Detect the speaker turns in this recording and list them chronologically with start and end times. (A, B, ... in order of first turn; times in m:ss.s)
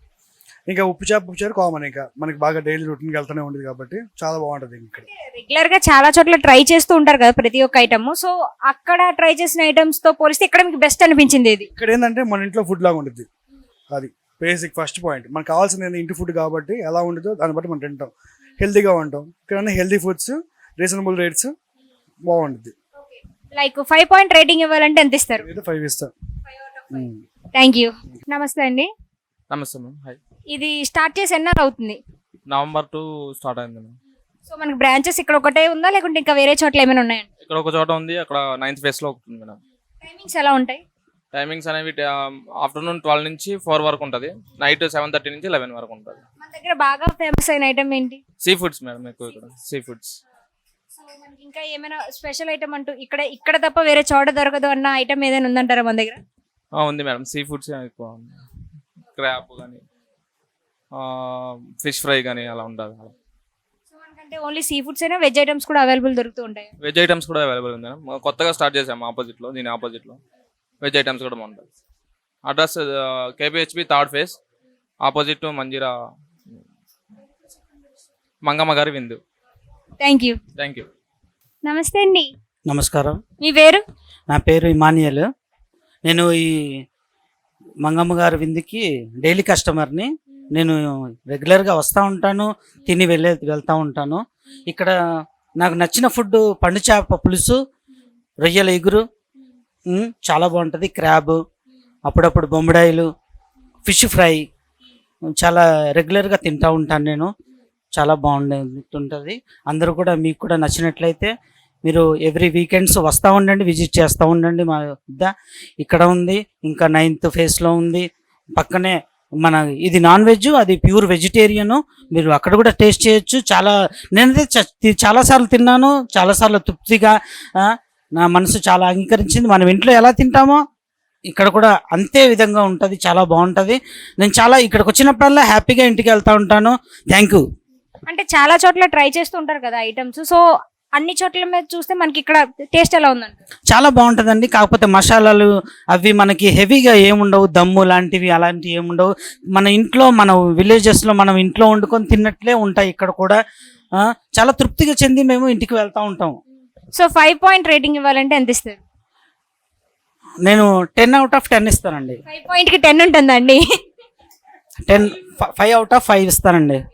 0:00.7-0:05.1 A
0:05.1-0:11.7 B
0:11.8-0:13.3 A
0:13.9-0:21.5 A
0:22.3-0:22.7 A
0:23.0-0:25.4 B
0:25.4-0:26.1 A
0:26.5-0:28.9 B
0:26.9-0:27.2 A
0:29.5-0:30.2 C
0:30.5-0:32.0 B
0:32.5-0:34.0 C
0:34.5-0:37.3 B
0:37.4-0:39.6 C
0:40.0-0:40.8 B
0:41.3-0:46.2 C
0:46.4-0:48.2 B
0:48.4-0:50.2 C
0:51.0-0:56.2 B
0:56.7-0:58.4 C
0:59.1-0:59.8 C
1:00.9-1:03.1 C
1:03.9-1:06.7 B
1:06.8-1:10.2 C
1:10.8-1:11.7 C
1:12.4-1:14.4 C
1:15.0-1:15.9 C
1:18.4-1:19.2 C
1:20.0-1:20.4 B
1:20.6-1:20.9 C
1:21.6-1:22.3 B
1:22.7-1:23.2 D
1:23.4-1:23.8 B
1:24.3-1:25.3 D
1:26.0-1:26.8 D
1:27.8-1:34.9 D
1:35.6-1:37.6 D
1:38.4-1:39.0 D
1:39.9-1:41.4 D
1:42.1-1:43.1 D
1:43.9-1:44.5 D
1:45.4-1:47.3 D
1:48.0-1:51.3 D
1:51.9-1:58.1 D
1:58.6-2:10.6 D
2:11.3-2:17.4 D
2:18.1-2:23.4 B
2:23.7-2:33.4 D
2:34.4-2:36.4 D
2:36.9-2:38.8 B
2:40.4-2:42.2 D
2:42.3-2:43.6 B
2:44.9-2:46.8 D